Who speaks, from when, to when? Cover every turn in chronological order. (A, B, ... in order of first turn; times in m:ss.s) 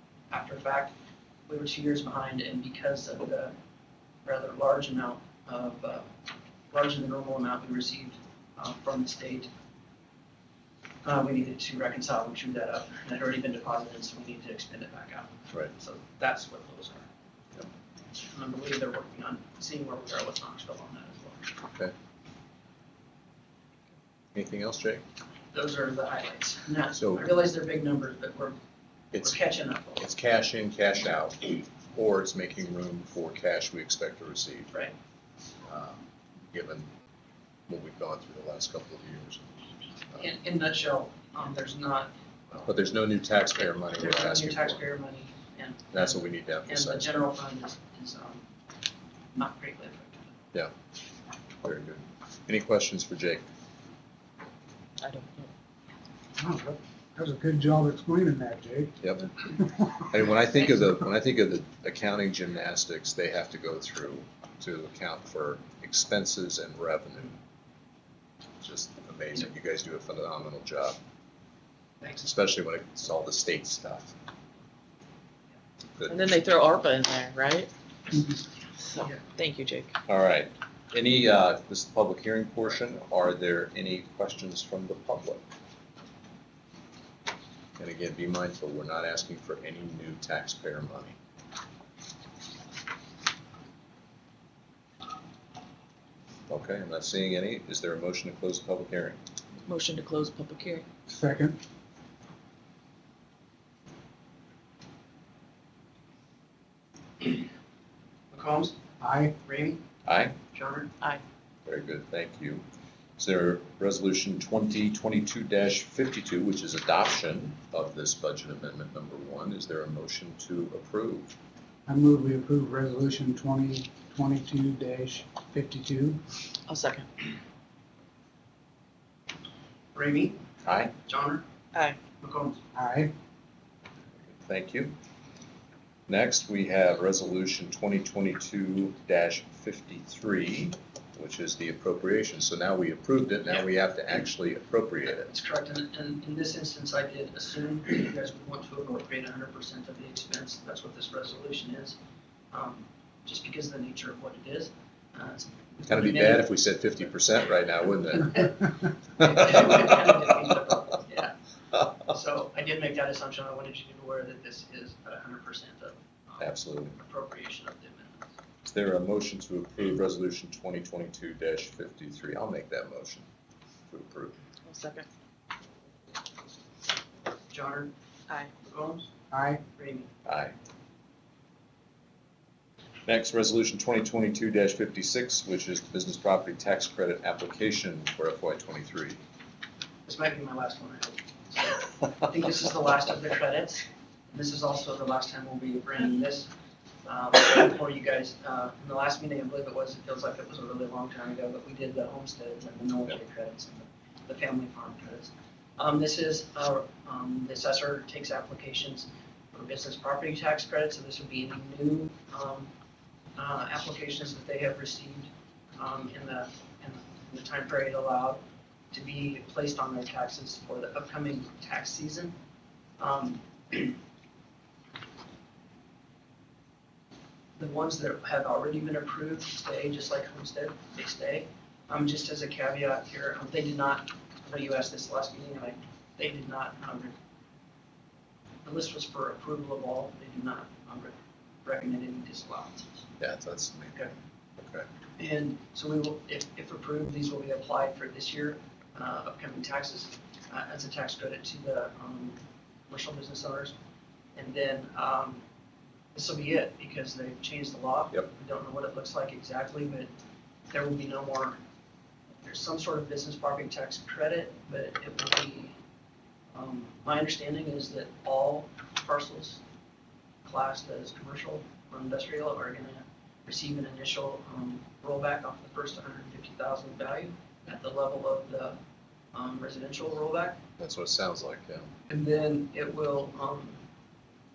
0:00.3-0:00.9 A
0:01.5-0:03.5 A
0:04.2-0:06.1 A
0:06.7-0:09.5 A
0:11.0-0:17.1 A
0:18.2-0:21.6 A
0:24.3-0:25.0 B
0:25.5-0:28.6 A
0:26.9-0:27.3 B
0:29.1-0:29.4 B
0:29.2-0:30.0 A
0:30.0-0:34.7 B
0:35.6-0:36.9 B
0:37.7-0:39.5 B
0:40.1-0:42.7 A
0:42.6-0:44.8 B
0:43.9-0:45.9 A
0:45.9-0:47.1 B
0:46.6-0:48.4 A
0:49.3-0:50.3 A
0:51.6-0:53.4 B
0:55.0-0:55.5 C
0:56.4-0:59.0 D
0:59.0-0:59.3 B
0:59.5-0:59.9 D
1:00.1-1:07.4 B
1:08.6-1:11.0 B
1:12.1-1:14.2 B
1:16.0-1:16.2 B
1:16.1-1:17.7 C
1:18.8-1:19.9 C
1:20.1-1:25.4 B
1:27.8-1:31.2 B
1:36.5-1:39.2 B
1:39.6-1:40.9 C
1:41.1-1:41.6 D
1:48.3-1:48.7 A
1:49.0-1:49.3 D
1:49.4-1:49.8 A
1:50.0-1:50.4 B
1:50.5-1:50.9 A
1:51.6-1:52.6 B
1:53.2-2:01.3 B
2:01.9-2:06.2 D
2:06.7-2:07.1 C
2:09.9-2:10.4 A
2:10.6-2:10.9 B
2:11.0-2:11.4 A
2:12.2-2:12.6 A
2:12.7-2:13.1 D
2:14.4-2:14.9 B
2:16.1-2:25.3 B
2:25.2-2:32.0 A
2:32.5-2:36.4 A
2:35.8-2:38.6 B
2:39.2-2:41.4 A
2:39.2-2:39.9 B
2:42.0-2:48.3 A
2:46.4-2:47.0 B
2:48.6-2:53.3 B
2:53.9-2:54.4 B
2:54.6-2:55.1 C
2:57.5-2:57.9 A
2:58.6-2:59.1 A
2:59.3-2:59.6 D
2:59.7-3:00.1 A
3:00.2-3:00.5 B
3:03.0-3:09.2 B
3:10.0-3:16.5 A
3:17.0-3:32.7 A
3:33.4-3:42.3 A
3:43.0-3:44.0 A
3:47.6-3:57.1 A
3:58.6-4:03.0 A
4:03.2-4:04.9 B
4:05.2-4:13.7 A
4:14.3-4:15.4 A
4:16.1-4:20.1 A
4:20.7-4:21.6 A
4:22.4-4:25.8 A
4:26.5-4:29.6 A
4:30.4-4:38.8 A
4:39.3-4:40.6 A
4:40.8-4:41.9 B
4:42.1-4:43.8 A